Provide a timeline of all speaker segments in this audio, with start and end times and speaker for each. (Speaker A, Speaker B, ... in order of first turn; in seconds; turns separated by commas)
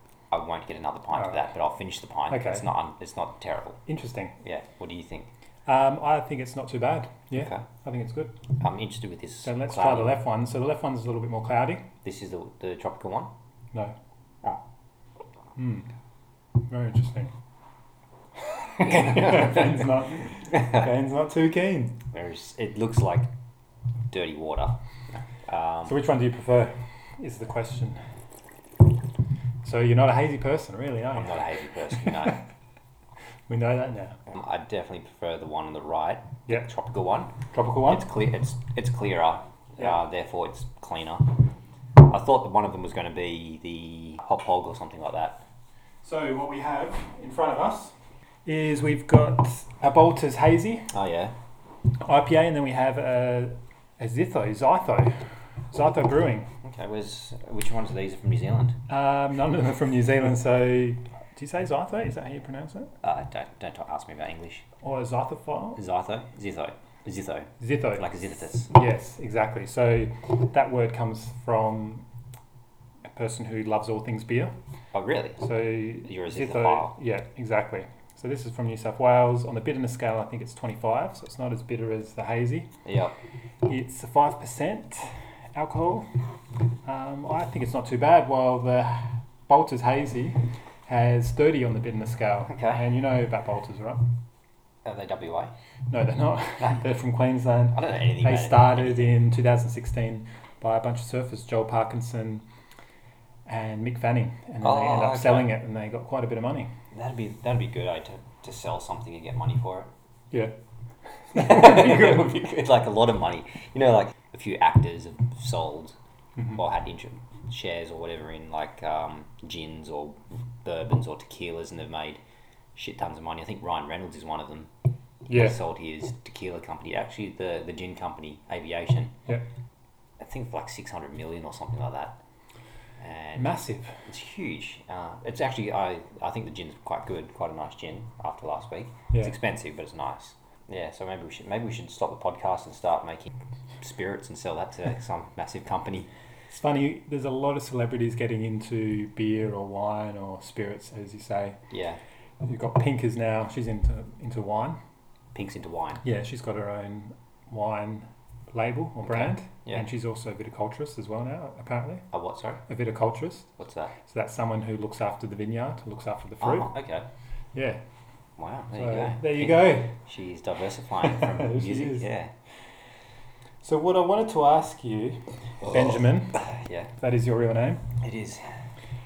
Speaker A: 0.3-3.8, Speaker B: 1.1-1.4, Speaker B: 2.3-2.7, Speaker B: 3.9-4.4, Speaker A: 4.4-5.3, Speaker B: 5.7-8.4, Speaker A: 7.3-7.7, Speaker A: 8.6-10.2, Speaker B: 9.4-11.8, Speaker A: 12.0-13.3, Speaker B: 15.6-15.9, Speaker B: 16.7-17.3, Speaker B: 18.5-22.0, Speaker A: 18.8-19.8, Speaker A: 20.5-20.8, Speaker A: 22.1-23.3, Speaker A: 24.1-26.0, Speaker B: 25.9-28.0, Speaker B: 29.6-32.4, Speaker A: 31.1-32.4, Speaker B: 33.5-34.2, Speaker A: 34.3-41.3, Speaker B: 37.5-38.1, Speaker A: 42.0-45.4, Speaker B: 46.0-47.9, Speaker B: 48.5-50.9, Speaker A: 50.9-51.4, Speaker B: 52.0-56.5, Speaker A: 56.6-58.8, Speaker B: 58.9-62.9, Speaker A: 63.0-64.7, Speaker B: 64.8-65.8, Speaker A: 65.8-68.7, Speaker B: 67.6-68.1, Speaker B: 68.7-72.1, Speaker B: 73.1-74.5, Speaker A: 74.9-77.0, Speaker B: 75.4-82.7, Speaker A: 82.8-83.2, Speaker B: 83.7-86.1, Speaker B: 86.8-94.1, Speaker A: 92.5-92.9, Speaker A: 94.8-95.5, Speaker B: 95.9-102.5, Speaker A: 97.7-99.2, Speaker B: 103.5-106.7, Speaker A: 104.6-105.6, Speaker A: 106.9-109.9, Speaker B: 111.2-112.3, Speaker A: 111.3-116.0, Speaker A: 116.5-122.2, Speaker A: 122.8-124.7, Speaker A: 125.3-129.2, Speaker B: 125.3-125.6, Speaker A: 130.2-132.2, Speaker A: 133.0-146.1, Speaker B: 133.4-134.1, Speaker B: 146.5-151.6, Speaker A: 151.7-152.0, Speaker B: 152.4-154.8, Speaker A: 155.3-156.0, Speaker B: 156.0-162.1, Speaker A: 159.0-159.9, Speaker A: 162.1-162.6, Speaker B: 162.7-163.5, Speaker A: 163.6-163.9, Speaker B: 164.0-166.7, Speaker A: 166.4-167.1, Speaker B: 167.6-167.8, Speaker A: 168.4-172.3, Speaker B: 168.7-170.0, Speaker B: 171.0-172.1, Speaker B: 173.6-176.4, Speaker A: 176.4-176.9, Speaker B: 177.0-177.9, Speaker A: 178.0-178.6